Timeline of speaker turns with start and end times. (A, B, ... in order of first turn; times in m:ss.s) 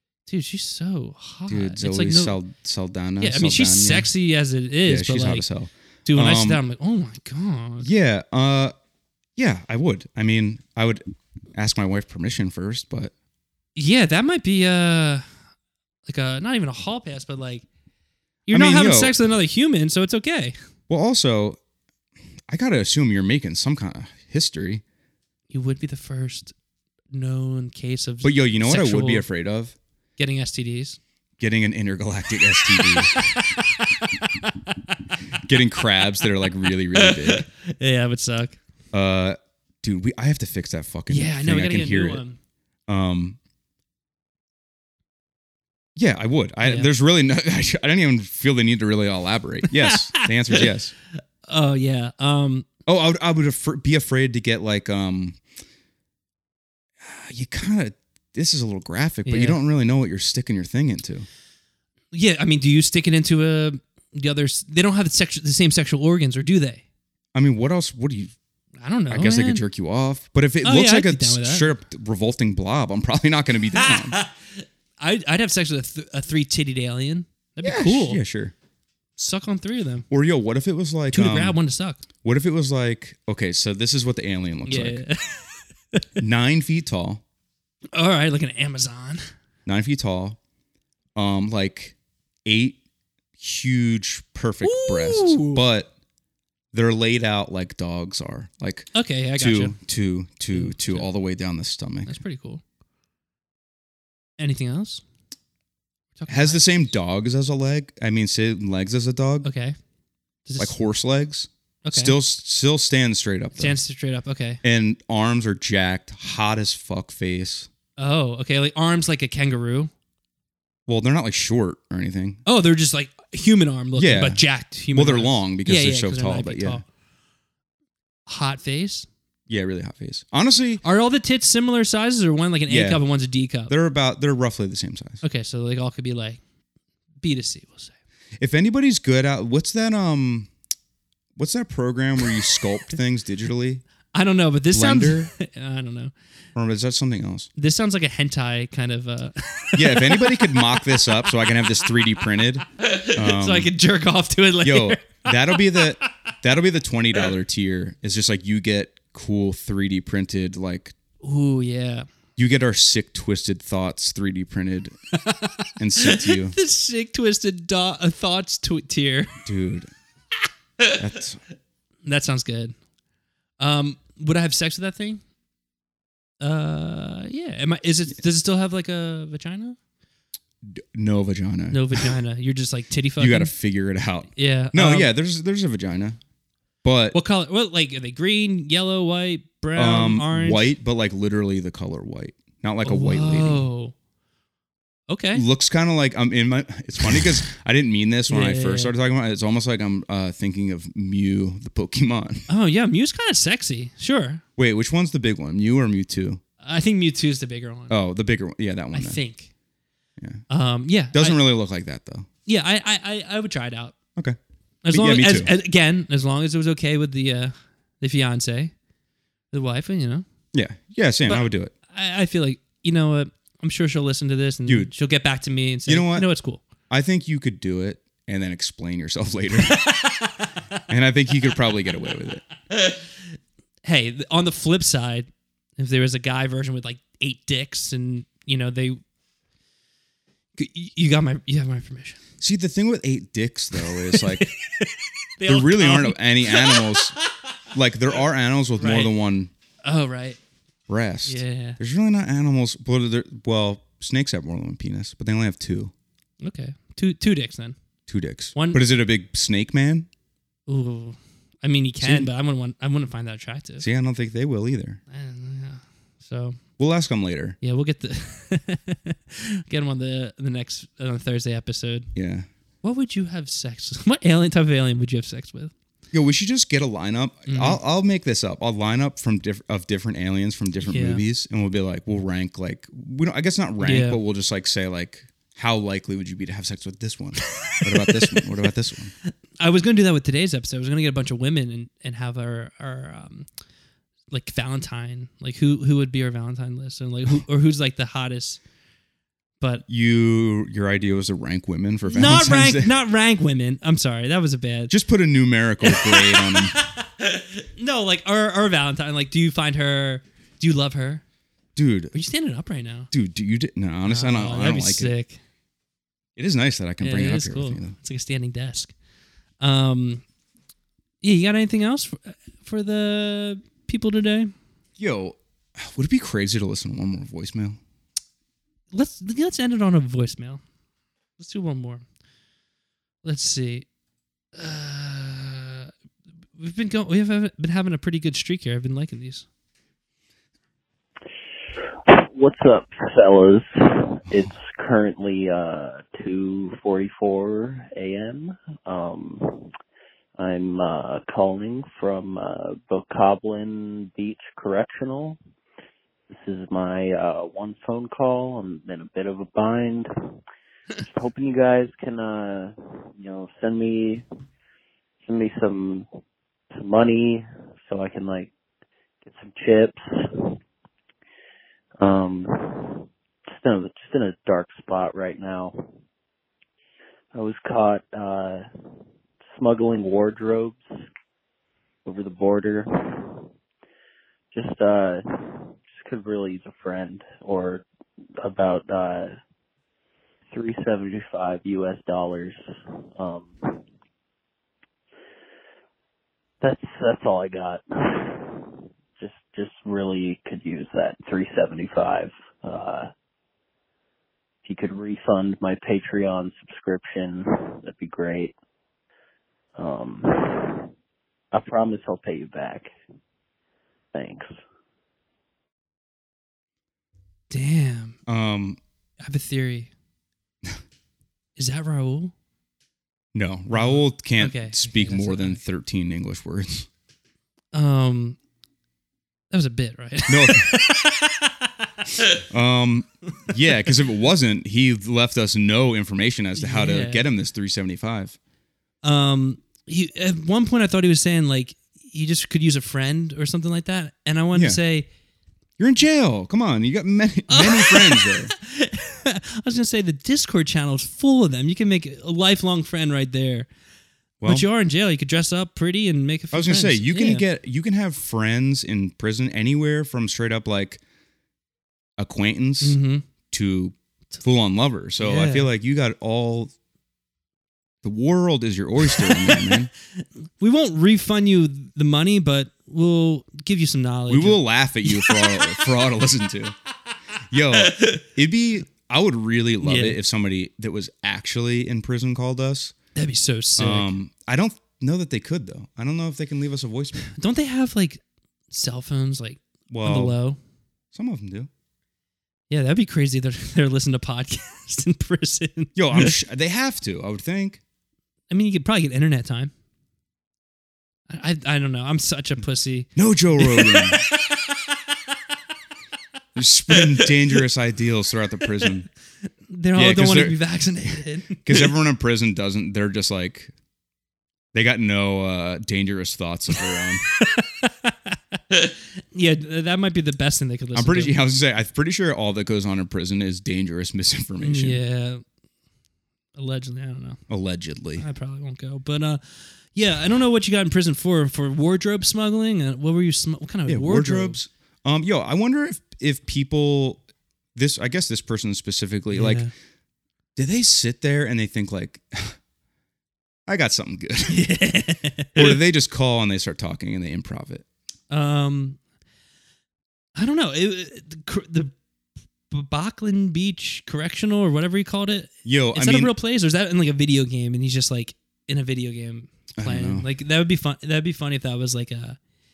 0:00.2-0:02.4 A
0:01.5-0:04.1 B
0:03.2-0:05.4 A
0:04.8-0:06.6 B
0:06.0-0:07.9 A
0:07.8-0:08.7 B
0:09.4-0:11.0 B
0:11.5-0:13.1 B
0:13.8-0:15.2 A
0:16.0-0:17.6 A
0:18.5-0:20.6 A
0:18.5-0:19.2 B
0:20.9-0:21.6 B
0:22.5-0:24.8 B
0:25.5-0:26.5 A
0:27.1-0:29.2 A
0:28.2-0:29.7 B
0:30.2-0:31.0 A
0:31.4-0:33.3 B
0:32.6-0:34.8 A
0:35.4-0:37.4 B
0:36.9-0:38.6 A
0:38.9-0:42.2 B
0:41.1-0:42.4 A
0:42.9-0:43.4 B
0:46.0-0:50.9 B
0:46.6-0:46.9 A
0:49.7-0:50.7 A
0:51.5-0:52.7 A
0:52.8-0:55.4 B
0:57.0-1:01.3 B
0:59.2-0:59.6 A
1:02.1-1:06.8 A
1:07.3-1:08.3 B
1:08.8-1:09.6 A
1:09.1-1:14.2 B
1:10.6-1:11.7 A
1:13.8-1:18.2 A
1:17.6-1:18.5 B
1:19.2-1:20.0 A
1:20.1-1:21.6 B
1:21.1-1:22.0 A
1:22.2-1:25.0 B
1:24.6-1:26.2 A
1:26.2-1:27.2 B
1:27.9-1:29.3 A
1:29.6-1:30.4 B
1:31.1-1:32.8 B
1:33.4-1:35.9 B
1:34.6-1:35.6 A
1:36.7-1:42.2 B
1:38.9-1:39.8 A
1:40.5-1:41.1 A
1:42.0-1:42.6 A
1:44.4-1:45.0 A
1:46.2-1:46.6 A
1:46.3-1:49.5 B
1:49.4-1:49.8 A
1:50.4-1:50.7 A
1:50.6-1:53.8 B
1:51.8-1:52.2 A
1:53.6-1:54.6 A
1:54.6-1:57.7 B
1:58.0-1:59.9 A
2:00.9-2:02.4 B
2:02.4-2:06.8 A
2:04.0-2:06.8 B
2:08.3-2:09.1 A
2:09.5-2:10.8 B
2:10.8-2:13.7 A
2:12.7-2:13.0 B
2:13.7-2:15.2 B
2:15.2-2:16.4 A
2:17.2-2:17.9 A
2:18.4-2:20.5 B
2:21.4-2:23.8 B
2:24.1-2:26.1 A
2:24.7-2:25.3 B
2:26.5-2:27.5 B
2:27.6-2:30.8 A
2:29.7-2:33.7 B
2:32.8-2:36.1 A
2:34.6-2:40.9 B
2:41.2-2:42.1 A
2:42.4-2:45.0 B
2:45.1-2:49.4 A
2:45.8-2:46.5 B
2:49.4-2:49.9 B
2:50.9-2:51.4 B
2:52.0-2:52.7 A
2:53.6-2:55.2 A
2:56.4-2:59.8 A
3:00.6-3:02.1 B
3:01.7-3:03.5 A
3:03.2-3:06.2 B
3:04.4-3:05.1 A
3:06.8-3:07.2 B
3:07.1-3:10.7 A
3:09.8-3:13.6 B
3:12.8-3:13.9 A
3:15.1-3:15.4 A
3:15.3-3:22.5 B
3:18.3-3:18.9 A
3:22.5-3:24.4 A
3:24.6-3:26.4 B
3:26.6-3:27.9 A
3:27.9-3:29.2 B
3:28.9-3:29.5 A
3:30.2-3:30.4 B
3:30.5-3:31.4 A
3:31.1-3:32.3 B
3:32.4-3:34.0 A
3:34.8-3:38.7 A
3:34.9-3:35.5 B
3:39.5-3:40.2 A
3:40.5-3:41.7 B
3:41.2-3:46.6 A
3:44.6-3:44.9 B
3:45.8-3:46.3 B
3:46.9-3:49.8 B
3:49.7-3:50.5 A
3:50.9-3:52.4 B
3:53.8-3:59.0 A
4:00.6-4:02.2 A
4:02.4-4:04.5 B
4:03.8-4:07.5 A
4:05.5-4:07.2 B
4:07.7-4:09.5 B
4:08.8-4:09.1 A
4:09.8-4:10.4 A
4:10.9-4:15.9 B
4:11.3-4:11.8 A
4:16.4-4:17.8 A
4:18.1-4:20.1 B
4:18.5-4:18.8 A
4:20.7-4:23.8 A
4:22.0-4:22.3 B
4:23.8-4:25.0 B
4:25.1-4:26.6 A
4:26.8-4:27.6 B
4:27.6-4:32.1 A
4:32.1-4:32.5 B
4:32.8-4:35.7 A
4:36.1-4:49.1 B
4:37.5-4:37.8 A
4:40.8-4:41.2 A
4:43.8-4:44.2 A
4:47.5-4:48.4 A
4:49.6-4:53.5 A
4:54.3-4:58.6 A
4:59.9-5:02.9 B
5:02.1-5:04.9 A
5:04.9-5:06.8 B
5:05.8-5:11.2 A
5:11.8-5:12.1 B
5:12.1-5:13.1 A
5:13.1-5:15.1 B
5:14.0-5:15.4 A
5:16.4-5:17.9 B
5:17.0-5:18.9 A
5:19.6-5:20.2 A
5:21.2-5:24.5 A
5:25.0-5:27.8 B
5:28.9-5:30.6 A
5:31.4-5:32.0 A
5:33.2-5:33.8 A
5:34.5-5:35.9 A
5:36.6-5:39.4 A
5:42.1-5:49.7 C
5:50.4-5:55.4 C
5:56.3-6:00.1 C
6:01.0-6:04.2 C
6:05.2-6:06.0 C
6:06.7-6:08.5 C
6:09.2-6:10.6 C
6:12.0-6:15.8 C
6:17.3-6:18.6 C
6:19.5-6:20.8 C
6:22.0-6:23.5 C
6:24.5-6:27.8 C
6:28.4-6:29.4 C
6:30.5-6:32.6 C
6:33.2-6:33.8 C
6:36.6-6:43.1 C
6:44.6-6:48.5 C
6:49.8-6:50.9 C
6:51.5-6:52.9 C
6:54.1-6:54.5 C
6:57.5-6:58.2 A
6:58.3-6:58.8 B
6:59.2-6:59.9 A
7:01.6-7:02.3 A
7:03.3-7:06.9 B
7:03.7-7:05.6 A
7:07.7-7:08.4 A
7:09.5-7:11.7 A
7:10.3-7:10.7 B
7:12.5-7:18.4 B
7:16.6-7:17.2 A
7:19.0-7:25.1 A
7:24.5-7:24.8 B
7:25.8-7:28.5 B
7:27.5-7:33.7 A
7:34.4-7:37.4 A
7:36.5-7:41.0 B
7:42.2-7:43.0 B
7:42.8-7:43.2 A
7:43.5-7:46.7 B
7:45.2-7:45.7 A
7:48.0-7:49.9 B
7:49.2-7:49.8 A
7:50.6-7:55.9 A
7:54.3-7:56.7 B
7:57.5-8:02.9 B
7:59.8-8:00.2 A
8:03.1-8:04.1 A
8:03.8-8:07.3 B
8:07.3-8:10.6 A
8:09.9-8:10.4 B
8:11.1-8:11.7 B
8:12.7-8:16.3 A
8:15.9-8:17.8 B
8:18.5-8:19.7 A
8:21.3-8:24.8 A
8:23.2-8:24.2 B
8:26.5-8:29.1 B
8:26.9-8:27.2 A
8:29.7-8:31.9 A
8:29.9-8:30.6 B
8:31.6-8:33.7 B
8:34.7-8:37.2 B
8:37.4-8:41.3 A
8:40.9-8:45.0 B
8:44.6-8:45.4 A
8:46.6-8:47.4 A
8:47.5-8:48.2 B
8:48.2-8:54.6 A
8:53.9-8:57.2 B
8:57.7-8:59.7 B
8:59.3-8:59.7 A
9:00.6-9:02.6 B
9:03.7-9:04.6 B
9:04.5-9:05.8 A
9:05.6-9:07.8 B
9:08.3-9:09.0 A
9:10.4-9:11.9 A
9:12.7-9:22.4 A
9:15.6-9:16.3 B
9:19.8-9:20.3 B